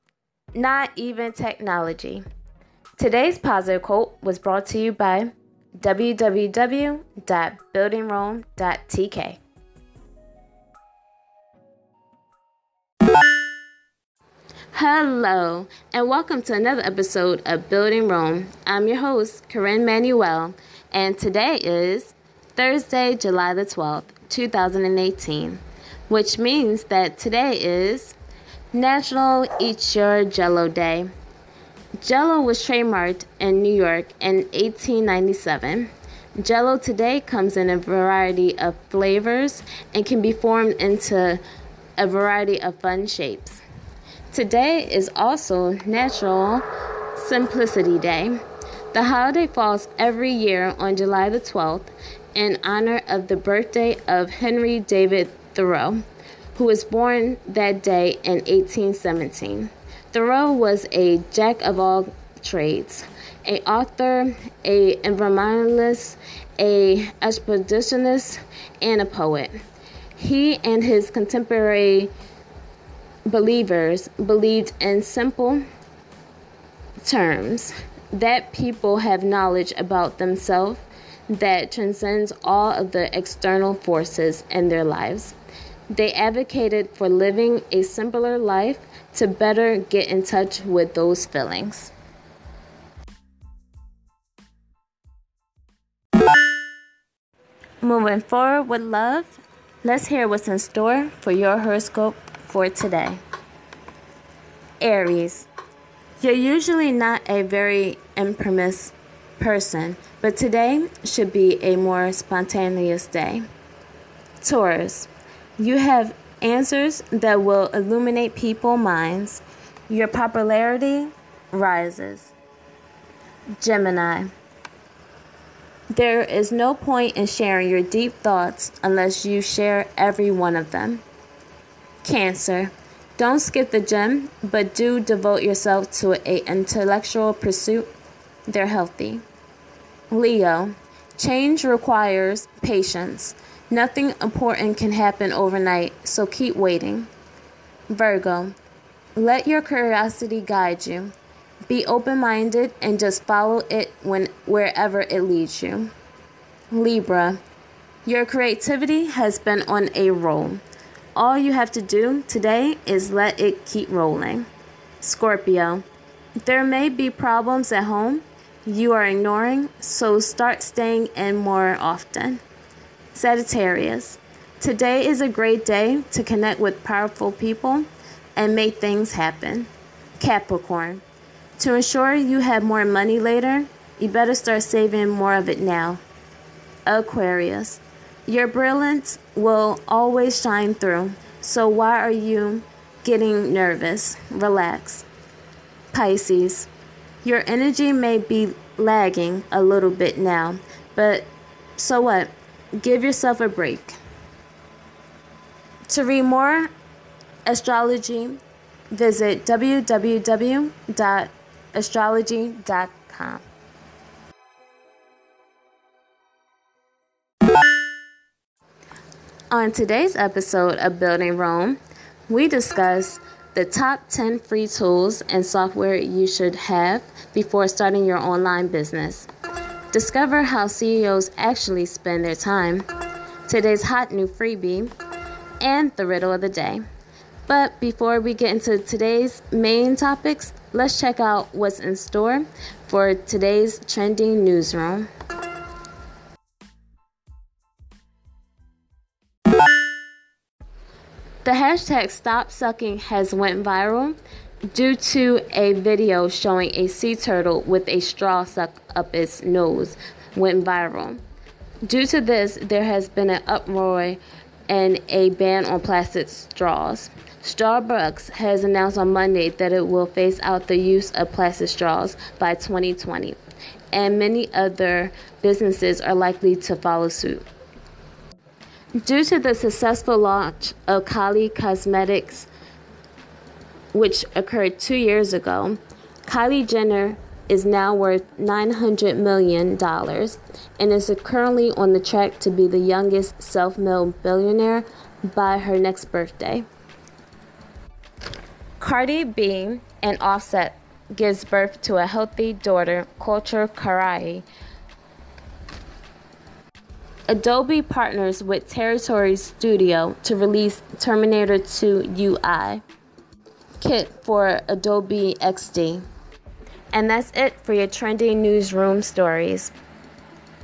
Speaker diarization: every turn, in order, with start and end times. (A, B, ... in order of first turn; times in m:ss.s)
0:00.5-0:02.2 A
0:03.0-0:09.4 A
0:14.7-0:28.2 A
0:28.7-0:31.1 A
0:32.0-0:41.4 A
0:42.0-0:43.6 A
0:44.3-0:48.4 A
0:48.9-0:56.0 A
0:56.5-1:09.6 A
1:10.2-1:12.1 A
1:13.2-1:15.6 A
1:17.0-1:25.4 A
1:25.9-1:31.9 A
1:37.8-1:43.2 A
1:44.8-1:45.5 A
1:46.2-1:53.4 A
1:54.4-2:02.3 A
2:03.6-2:04.3 A
2:05.9-2:11.0 A
2:12.0-2:17.9 A
2:18.5-2:19.2 A
2:20.1-2:27.1 A
2:27.9-2:28.6 A
2:29.2-2:31.1 A
2:31.7-2:35.9 A
2:36.7-2:37.4 A
2:38.0-2:40.6 A
2:41.1-2:44.5 A
2:45.0-2:45.8 A
2:46.4-2:52.4 A
2:53.1-3:01.0 A
3:01.6-3:06.0 A
3:06.8-3:15.1 A
3:15.9-3:16.7 A
3:17.2-3:24.0 A
3:25.9-3:26.7 A
3:27.4-3:28.4 A
3:28.9-3:33.4 A
3:39.5-3:49.3 A
3:49.9-3:52.9 A
3:53.4-3:54.9 A
3:55.6-3:56.8 A
3:57.5-4:05.1 A
4:11.4-4:14.2 A
4:14.7-4:21.2 A
4:21.8-4:33.4 A
4:33.9-4:37.5 A
4:39.0-4:42.5 A
4:43.9-4:56.6 A
4:58.8-5:04.4 A
5:07.3-5:12.8 A
5:13.8-5:16.0 A
5:16.9-5:19.7 A